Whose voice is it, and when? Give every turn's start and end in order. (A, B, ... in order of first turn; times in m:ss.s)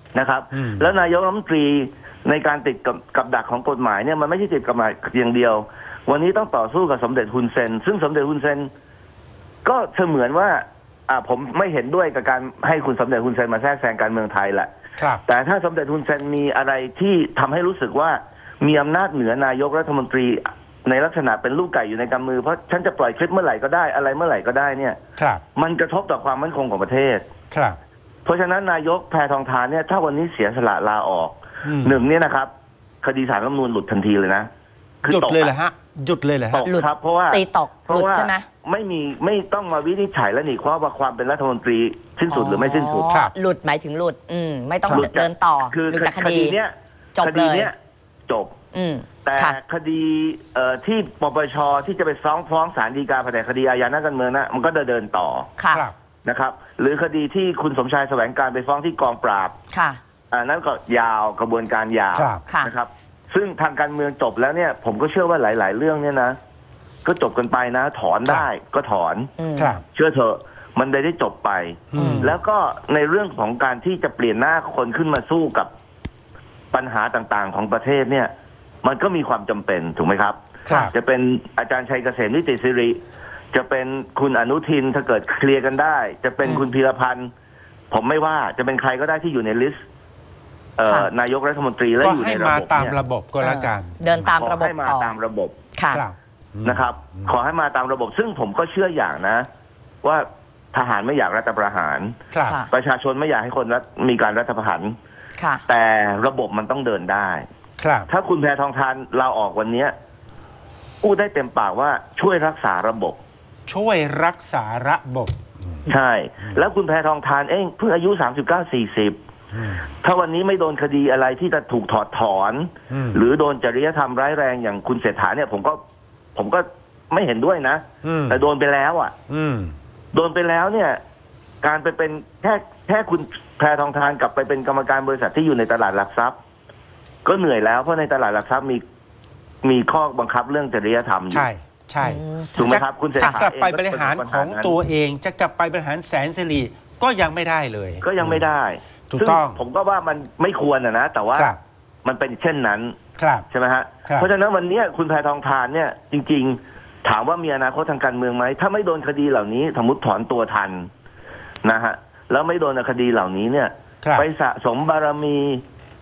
0:00.1-0:08.7 A
0:00.5-0:00.9 B
0:09.6-0:14.7 A
0:15.0-0:15.2 B
0:15.2-0:25.0 A
0:25.2-0:25.4 B
0:25.5-0:27.2 A
0:27.5-0:27.8 B
0:28.2-0:32.5 A
0:31.6-0:32.0 B
0:33.0-0:34.5 A
0:35.0-0:35.5 A
0:35.0-0:36.6 B
0:36.5-0:43.1 A
0:36.6-0:38.4 C
0:42.3-0:46.6 C
0:44.9-0:47.8 A
0:47.1-0:47.7 C
0:48.3-0:48.6 A
0:48.7-0:49.6 C
0:49.2-0:55.5 A
0:55.6-0:55.8 C
0:56.2-0:59.6 A
0:59.7-1:00.0 C
1:00.3-1:06.4 A
1:02.1-1:02.4 B
1:02.5-1:02.7 C
1:07.0-1:09.3 A
1:09.4-1:09.7 C
1:09.6-1:09.8 B
1:09.9-1:15.7 A
1:11.9-1:12.3 B
1:12.0-1:12.3 C
1:16.7-1:18.3 A
1:18.8-1:23.0 A
1:23.5-1:27.3 A
1:26.4-1:26.7 C
1:27.9-1:29.8 A
1:30.8-1:33.0 A
1:32.0-1:34.3 B
1:33.4-1:35.1 C
1:34.4-1:35.6 A
1:35.8-1:36.0 C
1:35.9-1:37.3 B
1:36.6-1:39.5 A
1:40.0-1:42.2 A
1:42.3-1:42.6 B
1:42.7-1:45.0 A
1:45.4-1:45.6 C
1:45.7-1:47.4 A
1:47.8-1:48.1 B
1:48.1-1:49.9 A
1:51.0-1:53.2 A
1:53.7-1:55.9 B
1:55.9-1:59.2 A
1:59.5-1:59.8 B
2:00.0-2:05.8 A
2:02.9-2:03.2 B
2:06.3-2:09.1 A
2:08.0-2:08.4 B
2:09.3-2:09.8 B
2:10.1-2:11.0 A
2:11.6-2:16.4 A
2:17.2-2:18.8 A
2:19.6-2:21.5 A
2:21.3-2:28.4 B
2:22.0-2:23.4 C
2:22.6-2:24.7 A
2:28.0-2:31.5 A
2:29.1-2:29.6 B
2:31.3-2:31.6 B
2:32.0-2:33.0 A
2:33.2-2:33.4 B
2:33.5-2:40.9 A
2:41.6-2:45.6 A